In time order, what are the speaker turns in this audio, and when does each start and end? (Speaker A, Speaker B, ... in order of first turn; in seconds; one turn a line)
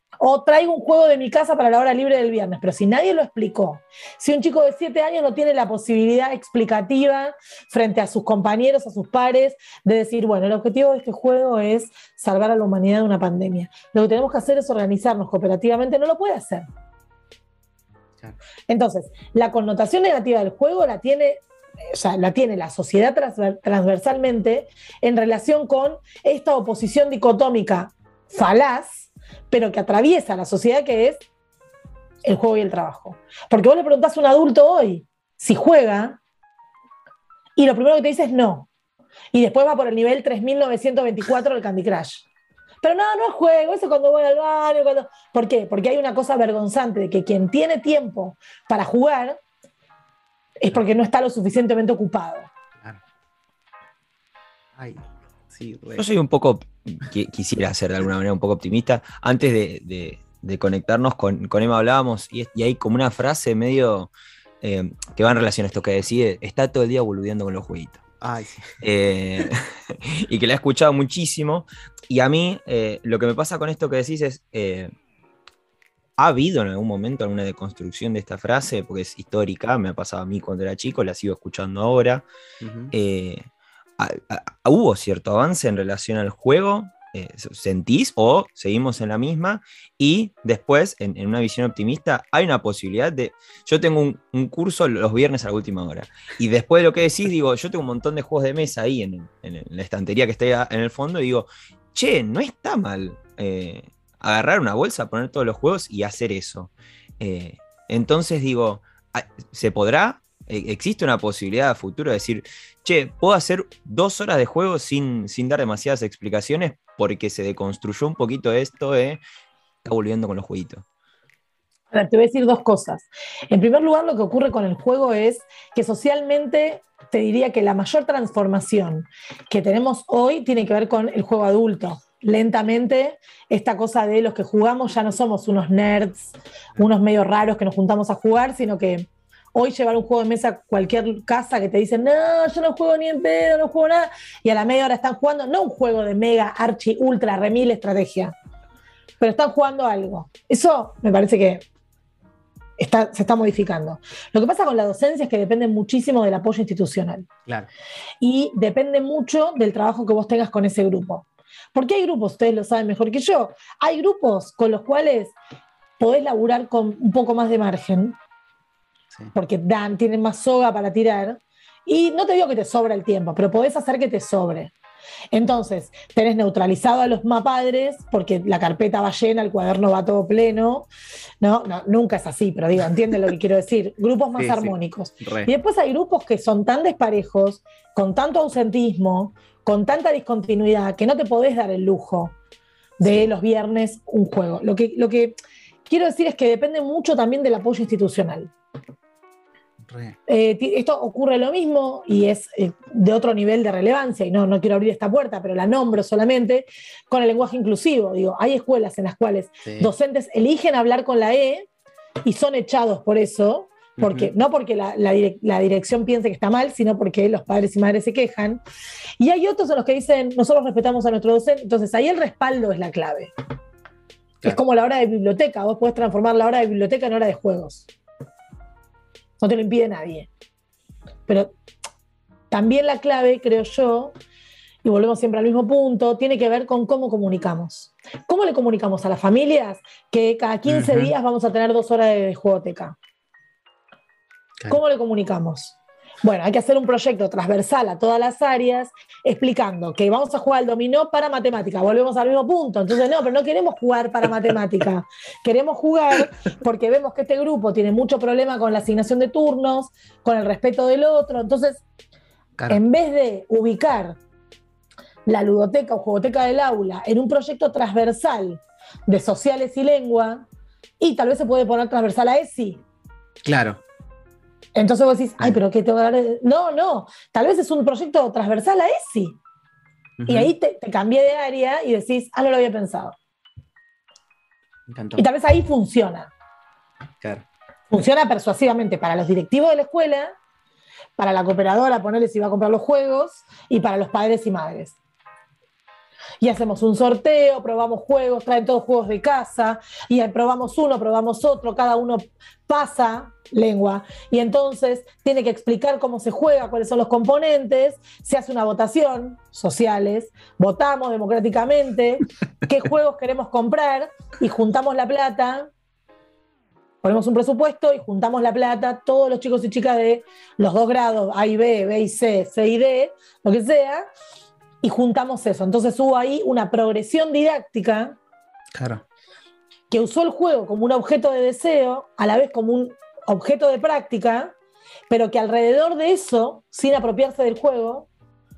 Speaker A: 0.2-16.7
Speaker A: 18.7-31.2
Speaker A: 32.2-36.2
Speaker A: 37.6-38.7
Speaker A: 39.3-42.2
Speaker A: 42.8-49.4
Speaker A: 50.6-52.5
Speaker B: 54.8-56.1
Speaker C: 56.0-64.1
Speaker C: 64.6-68.0
Speaker B: 68.2-68.7
Speaker C: 68.8-74.9
Speaker C: 76.2-82.2
Speaker B: 82.6-82.9
Speaker C: 82.9-119.2
Speaker C: 119.8-120.8
Speaker A: 121.9-148.3
Speaker A: 149.2-151.7
Speaker A: 152.8-157.3
Speaker A: 158.2-165.3
Speaker A: 166.0-168.2
Speaker A: 169.3-174.7
Speaker A: 175.3-180.9
Speaker A: 181.4-192.3
Speaker B: 184.3-185.5
Speaker A: 193.0-195.3
Speaker B: 193.0-193.3
Speaker A: 195.9-198.5
Speaker B: 199.8-200.2
Speaker A: 200.3-211.7
Speaker B: 209.7-209.9
Speaker A: 212.2-218.6
Speaker B: 214.0-214.3
Speaker A: 219.2-223.3
Speaker A: 224.4-227.9
Speaker A: 229.4-230.3
Speaker A: 231.3-231.5
Speaker A: 232.5-234.1
Speaker A: 234.8-242.9
Speaker B: 240.7-241.1
Speaker A: 244.7-261.8
Speaker A: 262.7-264.2
Speaker A: 265.3-270.4
Speaker A: 271.0-272.8
Speaker B: 273.4-273.8
Speaker A: 274.7-279.4
Speaker B: 280.2-280.5
Speaker A: 280.3-283.2
Speaker B: 284.9-285.2
Speaker A: 285.2-286.3
Speaker A: 287.9-290.3
Speaker A: 291.2-294.9
Speaker A: 296.4-315.7
Speaker A: 317.0-324.1
Speaker A: 324.8-328.2
Speaker B: 328.7-329.0
Speaker A: 329.9-334.6
Speaker A: 335.1-338.1